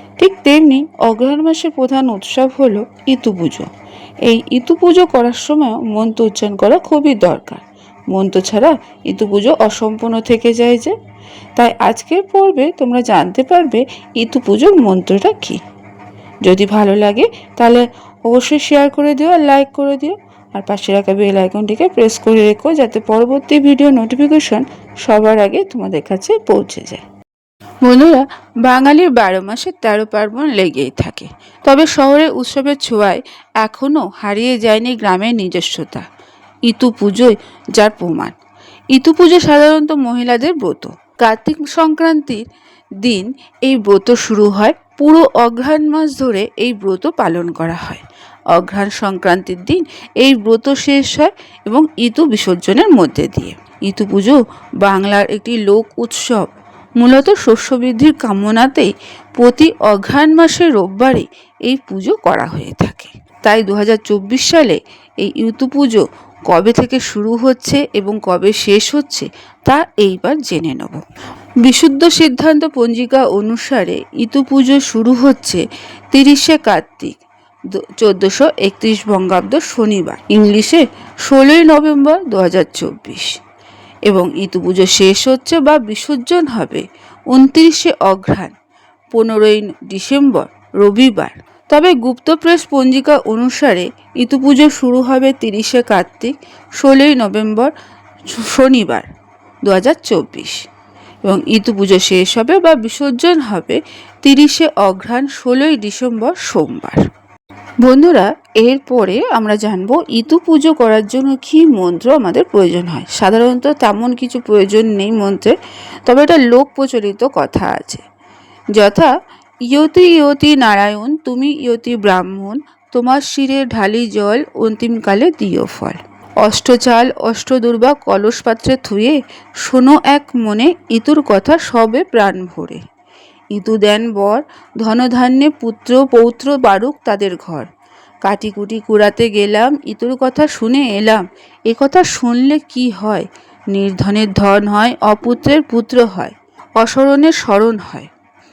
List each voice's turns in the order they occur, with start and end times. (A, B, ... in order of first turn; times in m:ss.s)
0:00.2-0:03.7 A
0:04.2-0:10.9 A
0:11.6-0:15.6 A
0:16.4-0:27.0 A
0:27.8-0:36.0 A
0:36.7-0:38.3 A
0:38.9-0:42.4 A
0:43.0-1:11.0 A
1:11.6-1:17.2 A
1:17.7-1:23.3 A
1:24.1-1:28.5 A
1:29.1-1:37.7 A
1:38.3-1:39.1 A
1:39.6-1:40.6 A
1:41.2-1:47.0 A
1:47.8-1:55.6 A
1:56.0-1:58.0 A
1:58.8-1:59.1 A
1:59.7-2:12.8 A
2:13.5-2:17.7 A
2:18.2-2:28.1 A